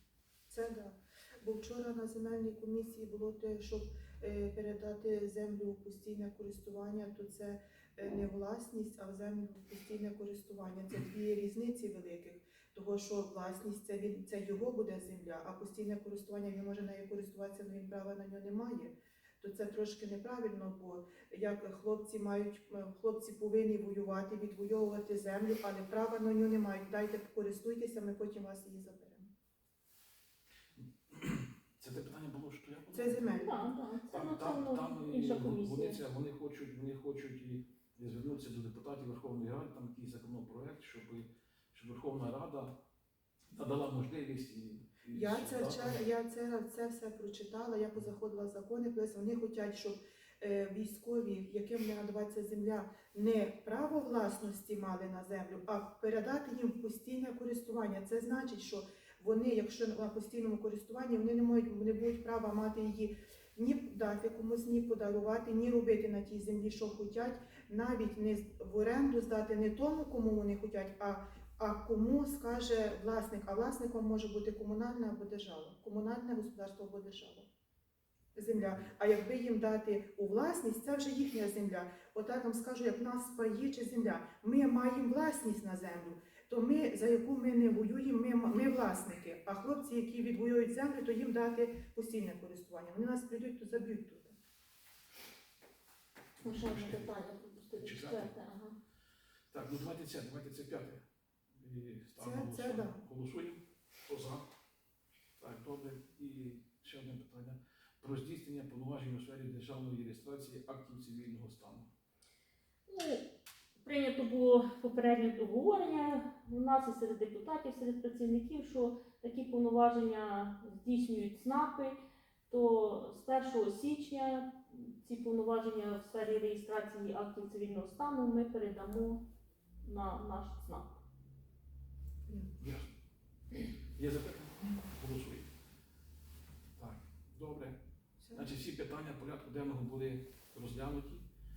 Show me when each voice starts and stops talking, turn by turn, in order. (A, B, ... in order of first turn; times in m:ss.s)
0:00.5-0:29.3 A
0:30.8-0:33.3 B
0:32.9-0:33.7 A
0:33.3-0:36.0 C
0:34.1-0:42.8 B
0:43.5-0:46.0 B
0:45.1-1:17.5 A
1:18.4-1:34.4 A
1:36.4-1:37.1 B
1:36.4-1:38.8 C
1:37.8-1:38.3 B
1:39.5-1:44.4 B
1:42.2-1:43.0 A
1:45.4-1:51.9 B
1:52.9-1:53.2 C
1:53.8-2:02.0 C
2:02.5-2:09.2 C
2:09.8-2:11.0 C
2:12.6-2:12.9 B
2:14.0-2:15.5 B
2:16.8-2:17.8 B
2:18.2-2:18.5 A
2:18.3-2:21.3 B